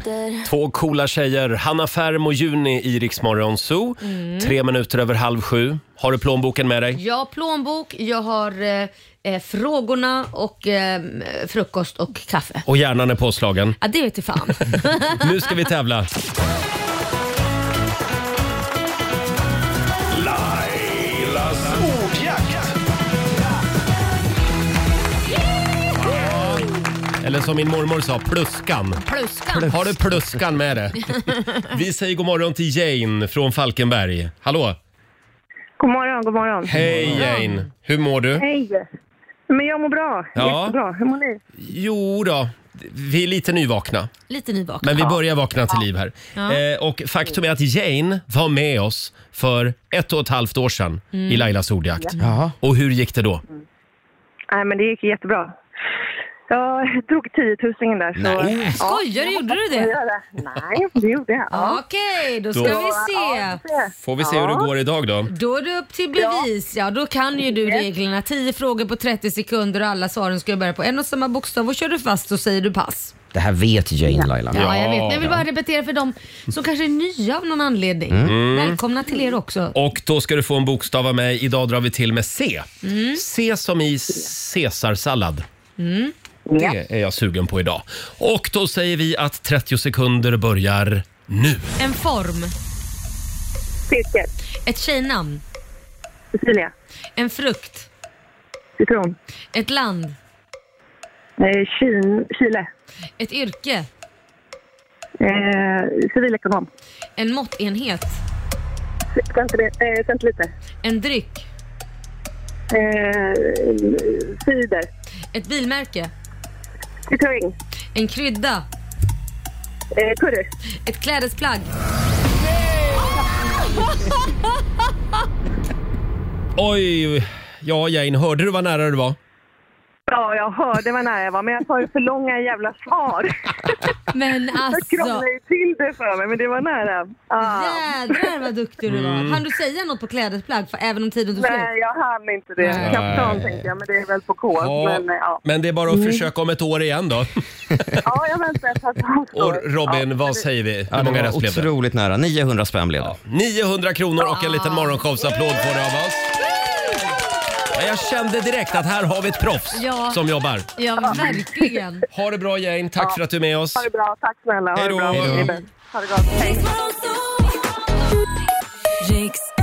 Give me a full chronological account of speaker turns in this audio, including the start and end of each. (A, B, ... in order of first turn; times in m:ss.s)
0:00.4-0:07.0 A
0:04.0-0:04.5 B
0:06.9-0:12.6 B
0:12.6-0:13.8 A
0:13.8-0:15.2 B
0:15.1-0:16.1 A
0:20.1-0:22.1 C
0:26.0-0:26.7 A
0:27.2-0:29.0 A
0:29.0-0:29.8 B
0:29.6-0:34.8 A
0:35.8-0:37.2 D
0:36.6-0:38.4 A
0:37.1-0:37.5 B
0:38.4-0:38.8 D
0:39.5-0:41.4 D
0:40.3-0:40.8 A
0:41.6-0:44.1 A
0:44.3-0:45.2 B
0:44.8-0:53.4 A
0:46.4-0:46.6 B
0:51.1-0:51.5 B
0:52.2-0:52.5 E
0:54.5-0:55.5 D
0:56.5-1:01.8 D
0:58.1-0:58.8 E
0:58.8-1:00.0 B
1:01.5-1:03.6 B
1:02.5-1:02.8 A
1:02.6-1:04.7 D
1:04.0-1:05.3 A
1:05.3-1:13.1 B
1:06.2-1:06.5 D
1:13.3-1:14.7 E
1:14.5-1:19.7 B
1:14.5-1:15.4 A
1:18.1-1:18.3 E
1:18.2-1:18.8 A
1:19.7-1:25.4 A
1:22.8-1:23.2 B
1:25.8-1:26.1 B
1:26.5-1:31.8 A
1:31.8-1:32.5 B
1:33.9-1:34.3 D
1:34.6-1:35.4 B
1:36.4-1:36.7 D
1:37.2-1:37.9 B
1:38.8-1:39.1 D
1:39.5-1:40.2 B
1:41.4-1:42.7 D
1:43.2-1:43.9 B
1:45.2-1:46.7 D
1:47.2-1:48.2 B
1:49.2-1:50.5 D
1:50.8-1:51.4 B
1:52.7-1:54.9 D
1:55.3-1:56.1 B
1:57.1-1:57.5 D
1:57.9-1:58.6 B
1:59.9-2:00.5 D
2:00.8-2:01.7 B
2:06.6-2:09.2 A
2:10.1-2:13.9 D
2:14.1-2:15.2 B
2:14.7-2:18.2 D
2:17.4-2:21.7 B
2:18.8-2:19.4 A
2:21.4-2:25.4 D
2:22.6-2:22.9 B
2:22.7-2:23.4 A
2:24.5-2:28.0 A
2:25.9-2:26.2 D
2:28.0-2:30.4 D
2:29.3-2:31.7 A
2:30.9-2:33.2 E
2:33.0-2:36.4 A
2:34.2-2:35.0 B
2:37.7-2:40.7 A
2:39.7-2:40.2 B
2:40.7-2:42.0 B
2:41.0-2:41.4 D
2:42.1-2:43.9 A
2:43.8-2:46.8 D
2:44.7-2:45.5 A